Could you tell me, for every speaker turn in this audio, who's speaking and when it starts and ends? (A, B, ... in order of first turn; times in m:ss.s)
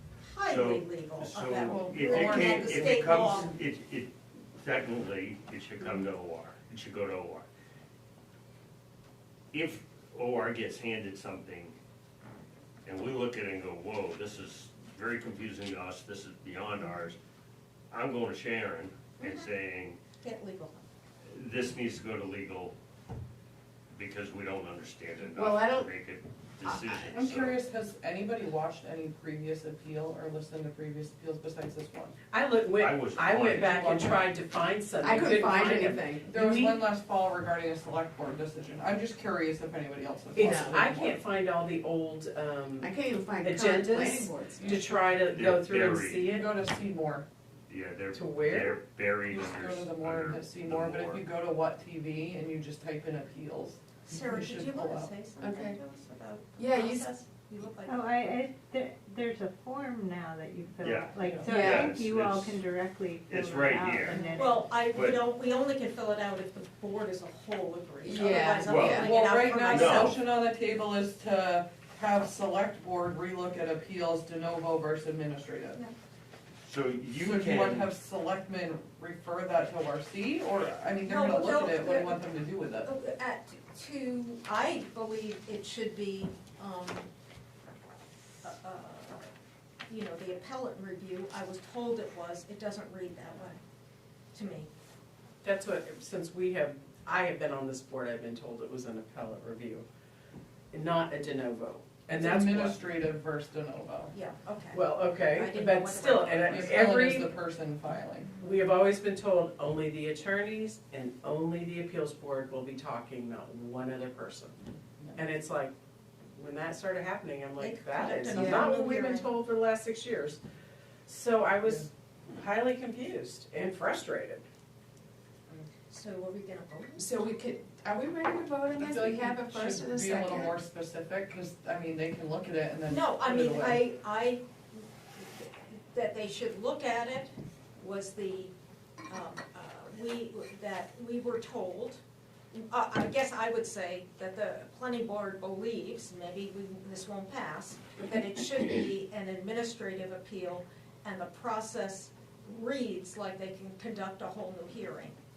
0:00.3-0:03.5 A
0:00.5-0:07.5 B
0:01.7-0:03.4 C
0:09.5-0:11.7 B
0:12.9-0:17.2 B
0:17.9-0:20.0 B
0:19.2-0:19.5 A
0:20.2-0:20.8 A
0:21.3-0:22.7 B
0:23.9-0:27.6 B
0:25.4-0:25.9 D
0:26.7-0:32.2 C
0:32.3-0:36.8 E
0:32.8-0:33.8 B
0:33.4-0:34.3 C
0:35.0-0:36.7 D
0:35.5-0:41.2 C
0:40.3-0:46.5 E
0:40.4-0:40.8 D
0:42.8-0:44.8 D
0:44.6-0:44.8 C
0:45.3-0:46.3 B
0:46.2-0:47.3 C
0:47.7-0:51.2 B
0:48.1-0:48.8 E
0:49.3-0:55.1 C
0:54.1-0:58.1 A
0:55.4-0:55.8 D
0:56.6-0:57.1 D
0:57.8-1:04.6 F
1:00.8-1:02.6 B
1:01.2-1:01.7 C
1:01.5-1:02.0 D
1:03.3-1:04.2 B
1:04.1-1:10.2 A
1:04.8-1:05.2 B
1:08.0-1:09.2 D
1:08.6-1:09.0 B
1:08.7-1:15.8 C
1:09.7-1:10.2 B
1:16.6-1:17.9 B
1:17.2-1:22.9 C
1:21.1-1:22.3 A
1:22.8-1:27.1 A
1:28.4-1:29.3 A
1:29.9-1:33.6 A
1:34.3-1:34.7 A
1:35.4-1:39.9 E
1:40.7-1:42.8 E
1:42.1-1:44.1 C
1:44.1-1:46.9 A
1:44.7-1:47.3 E
1:46.4-1:48.3 C
1:48.4-1:54.6 E
1:55.2-1:55.7 E
1:56.4-2:00.4 E
1:57.6-1:59.3 A
1:58.3-1:58.7 D
2:01.1-2:04.4 E
2:05.9-2:07.1 A
2:07.0-2:10.6 D
2:08.8-2:13.8 C
2:12.9-2:18.5 A
2:19.1-2:22.0 A
2:22.5-2:35.2 A